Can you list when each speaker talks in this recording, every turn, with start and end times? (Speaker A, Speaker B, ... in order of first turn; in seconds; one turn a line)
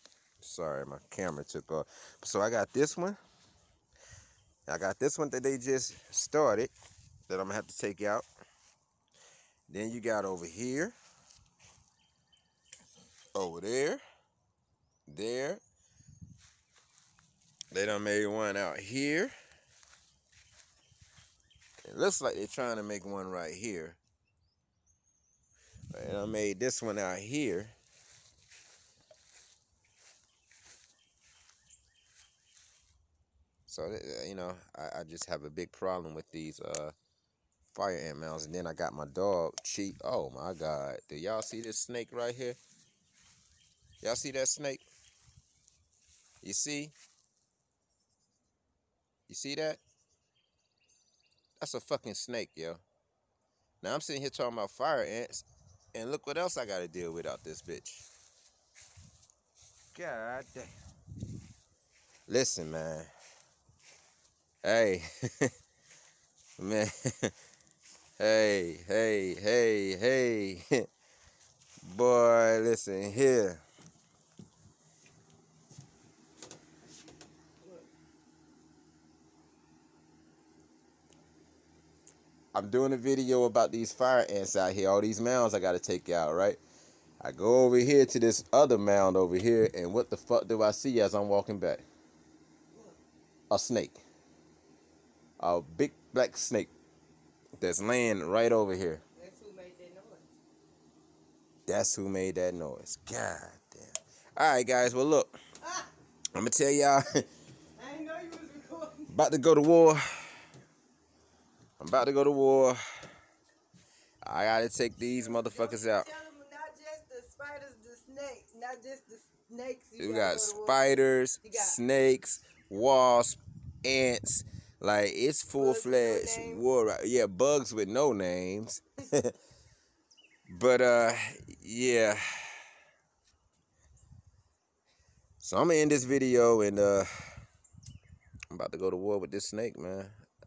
Speaker A: 0.4-3.2
Speaker A: 4.7-6.7
Speaker A: 7.3-8.2
Speaker A: 9.7-10.9
Speaker A: 13.3-14.0
Speaker A: 15.1-15.6
Speaker A: 17.7-19.3
Speaker A: 21.8-24.0
Speaker A: 25.9-27.7
Speaker A: 33.7-36.9
Speaker A: 37.7-42.6
Speaker A: 44.0-44.8
Speaker A: 46.4-46.9
Speaker A: 49.3-49.8
Speaker A: 51.6-52.8
Speaker A: 53.8-58.1
Speaker A: 59.9-60.7
Speaker A: 62.3-63.1
Speaker A: 64.6-65.5
Speaker A: 66.6-67.3
Speaker A: 68.2-70.8
Speaker A: 71.8-73.6
Speaker A: 82.5-86.6
Speaker A: 87.2-91.8
Speaker B: 92.7-93.0
Speaker A: 93.5-94.0
Speaker A: 95.4-96.7
Speaker A: 97.6-99.0
Speaker B: 99.2-100.2
Speaker A: 101.7-105.3
Speaker A: 106.3-107.2
Speaker B: 107.8-109.1
Speaker A: 109.1-110.0
Speaker A: 111.8-112.8
Speaker A: 114.2-116.1
Speaker B: 115.0-121.8
Speaker A: 120.0-129.3
Speaker B: 125.5-126.6
Speaker A: 130.5-132.2
Speaker A: 135.4-137.1
Speaker A: 138.5-140.1